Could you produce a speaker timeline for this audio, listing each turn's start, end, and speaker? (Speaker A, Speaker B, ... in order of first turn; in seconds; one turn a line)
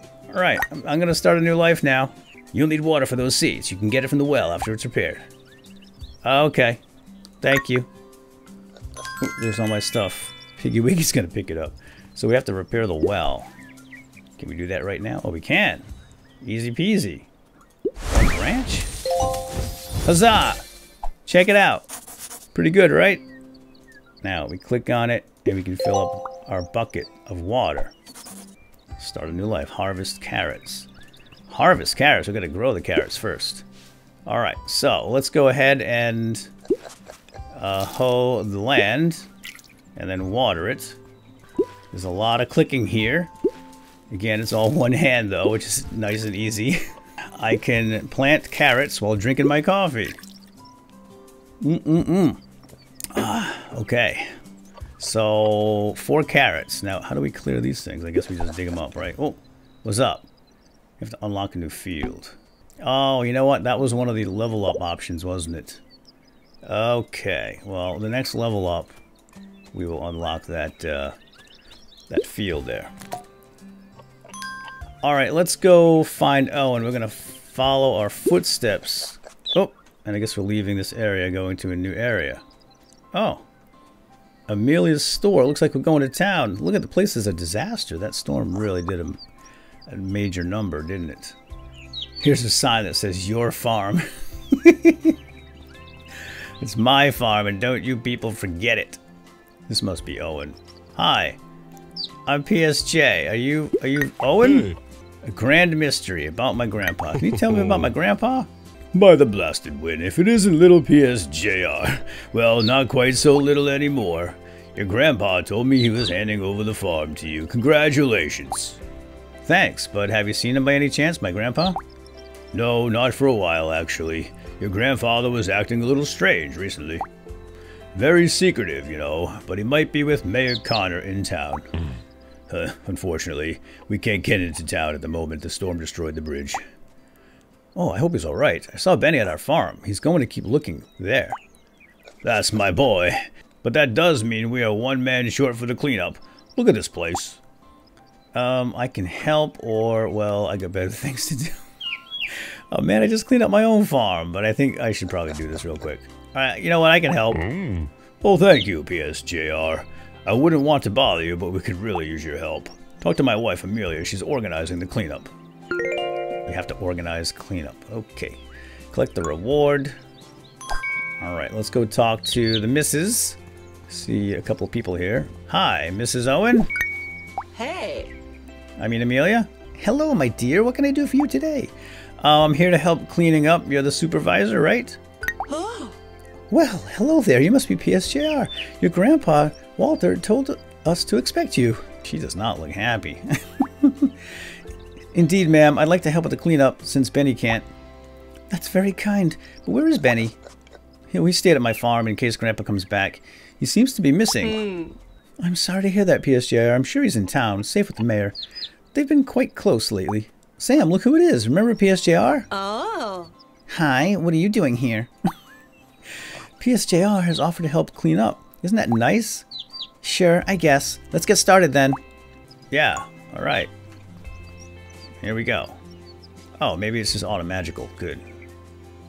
Speaker A: 0.3-5.3
Speaker A: 6.2-6.8
Speaker A: 7.4-7.9
Speaker A: 9.2-13.5
Speaker A: 14.4-15.9
Speaker A: 16.4-17.3
Speaker A: 18.1-18.9
Speaker A: 20.1-20.6
Speaker A: 21.3-21.9
Speaker A: 22.5-23.2
Speaker A: 24.2-27.9
Speaker A: 29.0-30.9
Speaker A: 31.5-33.6
Speaker A: 34.3-36.5
Speaker A: 37.5-39.3
Speaker A: 40.0-41.0
Speaker A: 41.9-43.3
Speaker A: 44.1-46.8
Speaker A: 47.3-50.2
Speaker A: 51.6-52.4
Speaker A: 53.1-54.3
Speaker A: 55.0-60.3
Speaker A: 61.0-65.8
Speaker A: 66.6-69.0
Speaker A: 69.7-71.2
Speaker A: 72.1-72.9
Speaker A: 75.0-82.4
Speaker A: 83.1-83.5
Speaker A: 84.5-89.2
Speaker A: 89.9-91.4
Speaker A: 92.2-95.2
Speaker A: 96.6-99.0
Speaker A: 99.7-101.4
Speaker A: 102.3-118.8
Speaker A: 119.4-121.8
Speaker A: 122.5-127.1
Speaker A: 127.9-131.7
Speaker A: 132.5-136.6
Speaker A: 137.8-141.4
Speaker A: 142.2-147.4
Speaker A: 148.3-151.6
Speaker A: 152.3-165.3
Speaker A: 166.5-168.4
Speaker A: 168.9-170.0
Speaker A: 171.2-173.4
Speaker A: 173.9-176.7
Speaker B: 177.5-178.1
Speaker A: 178.8-185.0
Speaker B: 185.5-186.0
Speaker A: 186.5-194.3
Speaker A: 195.1-197.7
Speaker A: 198.5-200.4
Speaker A: 201.1-204.6
Speaker B: 204.4-205.0
Speaker A: 205.4-208.4
Speaker A: 208.9-212.5
Speaker B: 212.5-213.3
Speaker A: 213.7-215.1
Speaker A: 216.6-219.5
Speaker A: 220.0-222.0
Speaker A: 222.7-223.7
Speaker A: 225.2-225.8
Speaker A: 226.6-228.2